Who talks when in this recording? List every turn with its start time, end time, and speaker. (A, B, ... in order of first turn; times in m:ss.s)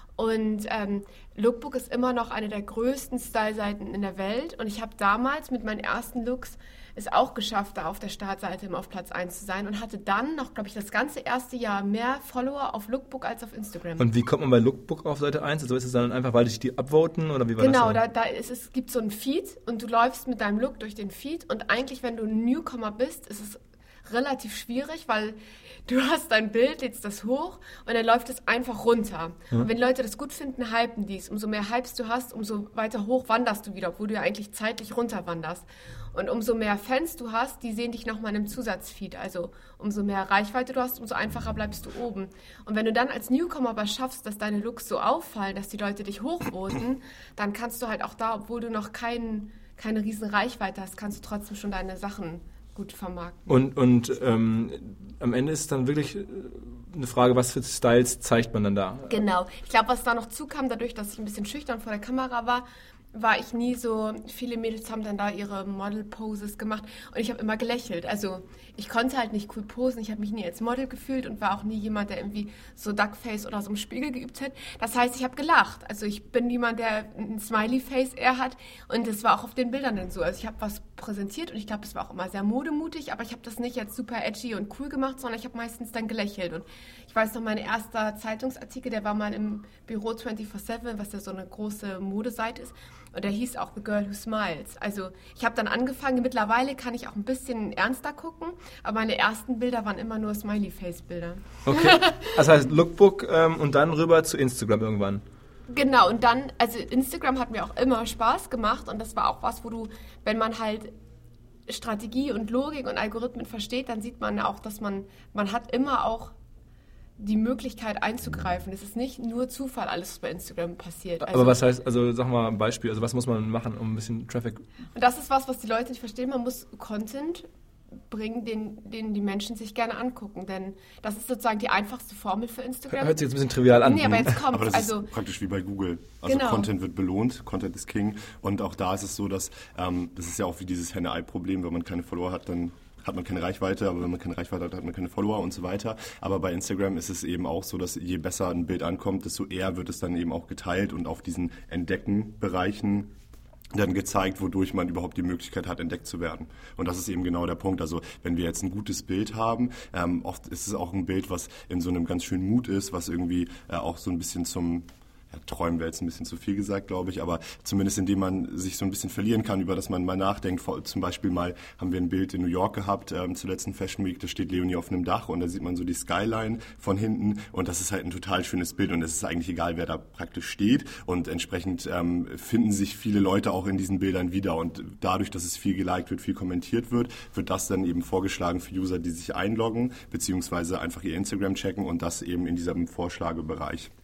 0:00.2-0:14.1 A
0:14.0-0:18.0 B
0:17.6-0:53.5 A
0:53.5-0:59.2 B
0:59.1-1:42.4 A
1:41.7-1:45.2 B
1:45.7-1:50.9 A
1:51.7-1:56.3 A
1:57.2-2:01.6 A
2:01.2-2:04.6 B
2:05.0-2:07.5 A
2:08.1-2:13.2 A
2:12.9-2:14.4 B
2:13.8-2:15.1 A
2:14.0-2:33.1 C
2:16.2-2:16.7 A
2:33.7-3:13.9 C